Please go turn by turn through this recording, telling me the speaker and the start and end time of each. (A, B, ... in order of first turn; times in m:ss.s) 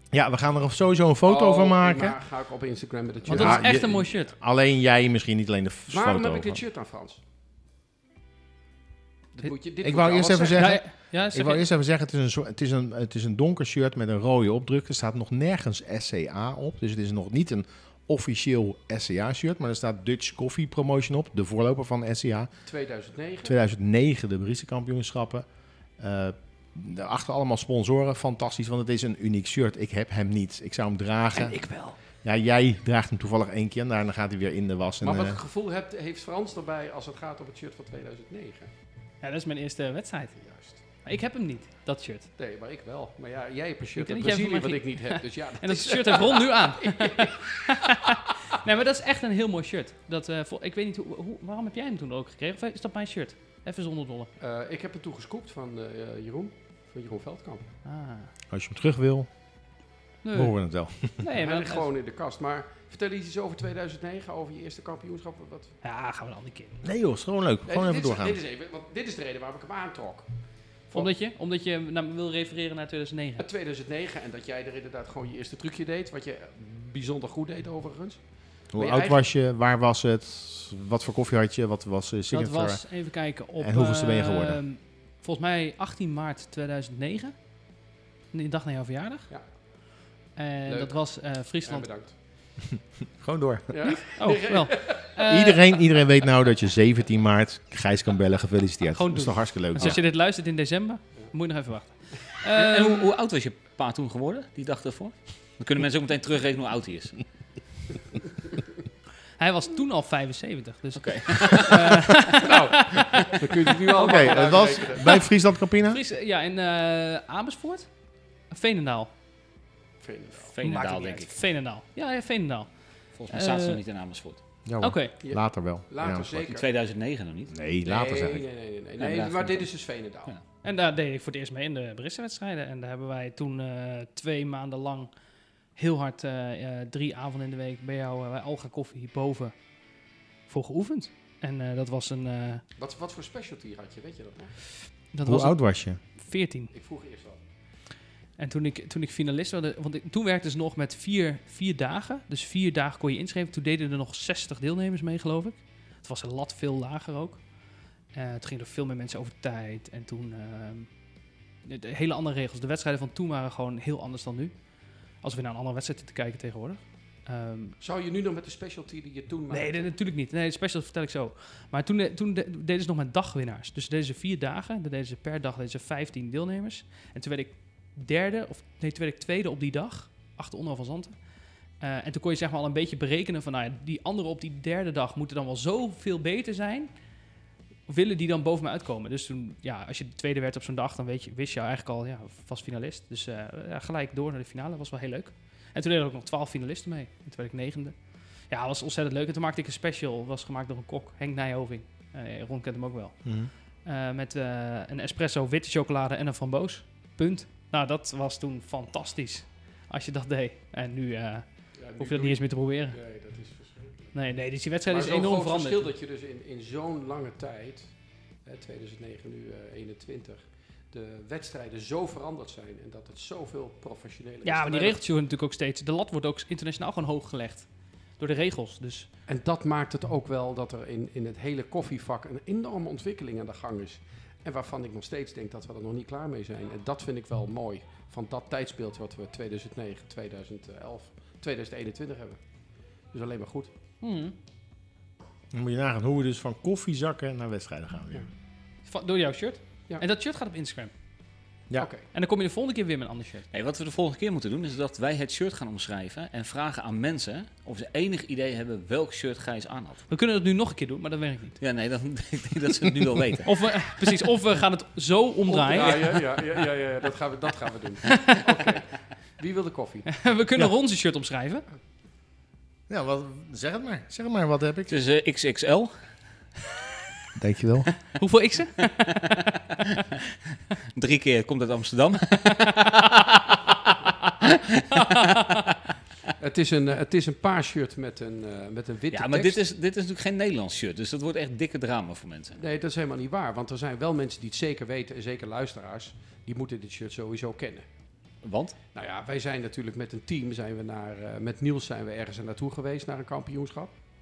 0:00.1-0:02.2 A
0:01.3-0:03.9 B
0:03.3-0:06.6 A
0:03.3-0:04.3 C
0:05.9-0:07.2 B
0:09.3-0:10.7 B
0:09.8-0:22.5 A
0:10.5-0:11.7 C
0:22.7-0:23.6 B
0:23.4-0:25.5 A
0:26.0-0:31.6 A
0:31.4-0:32.0 C
0:32.2-0:35.4 A
0:35.0-0:38.7 B
0:39.2-0:40.4 C
0:40.4-0:40.8 B
0:41.0-0:42.3 C
0:42.4-0:48.2 B
0:44.0-0:54.3 C
0:54.4-0:57.7 B
0:57.8-0:58.3 C
0:58.5-0:59.3 A
1:00.2-1:00.6 C
1:00.3-1:01.2 A
1:01.2-1:01.9 C
1:01.4-1:05.7 B
1:05.8-1:06.8 C
1:06.8-1:08.4 A
1:07.7-1:10.3 B
1:10.9-1:13.5 C
1:13.4-1:18.2 B
1:18.7-1:22.8 A
1:18.8-1:19.2 B
1:22.3-1:27.4 C
1:23.6-1:24.6 A
1:28.3-1:29.3 C
1:30.4-1:31.9 C
1:30.7-1:31.0 B
1:31.6-1:32.2 B
1:33.2-1:34.0 A
1:33.7-1:35.2 B
1:33.8-1:35.6 C
1:35.2-1:40.0 A
1:38.9-1:43.1 C
1:42.5-1:47.2 D
1:49.4-1:54.3 C
1:51.0-1:52.1 D
1:52.4-1:55.2 B
1:54.0-1:56.0 A
1:55.8-1:57.9 C
1:58.5-1:59.1 C
2:00.0-2:00.5 B
2:00.5-2:01.3 D
2:00.6-2:03.8 C
2:03.2-2:04.4 D
2:04.7-2:06.5 A
2:04.8-2:05.2 C
2:05.2-2:06.6 B
2:06.4-2:07.6 D
2:07.5-2:08.4 A
2:07.8-2:10.3 B
2:09.0-2:09.7 D
2:10.6-2:15.1 C
2:15.8-2:19.6 C
2:20.5-2:22.6 C
2:22.8-2:24.6 B
2:25.1-2:26.7 C
2:25.2-2:26.0 A
2:26.7-2:27.4 B
2:28.4-2:37.5 C
2:38.1-2:40.9 C
2:41.6-2:44.6 C
2:45.2-2:47.8 C
2:47.8-2:49.9 B
2:49.5-3:01.2 C
3:01.8-3:06.9 C
3:07.9-3:33.0 C
3:23.2-3:23.5 A
3:31.8-3:34.1 B
3:34.1-3:35.9 C
3:34.9-3:37.9 B
3:38.4-3:45.0 B
3:44.4-3:49.1 C
3:49.3-4:02.4 B
4:03.1-4:03.7 B
4:04.0-4:04.4 C
4:05.5-4:08.3 A
4:08.9-4:10.9 C
4:11.8-4:12.0 B
4:12.1-4:13.5 C
4:13.5-4:20.0 D
4:20.1-4:21.6 C
4:21.6-4:23.5 D
4:23.4-4:26.2 C
4:25.5-4:30.1 B
4:30.1-4:31.6 C
4:32.9-4:35.0 A
4:34.9-4:35.9 D
4:37.4-4:37.9 A
4:38.2-4:39.6 C
4:40.9-4:43.7 D
4:42.5-4:43.2 C
4:44.4-4:45.8 D
4:44.9-4:45.6 C
4:46.4-4:49.6 B
4:49.1-4:52.6 D
4:52.6-4:57.9 B
4:58.4-4:58.8 D
4:58.9-5:03.9 B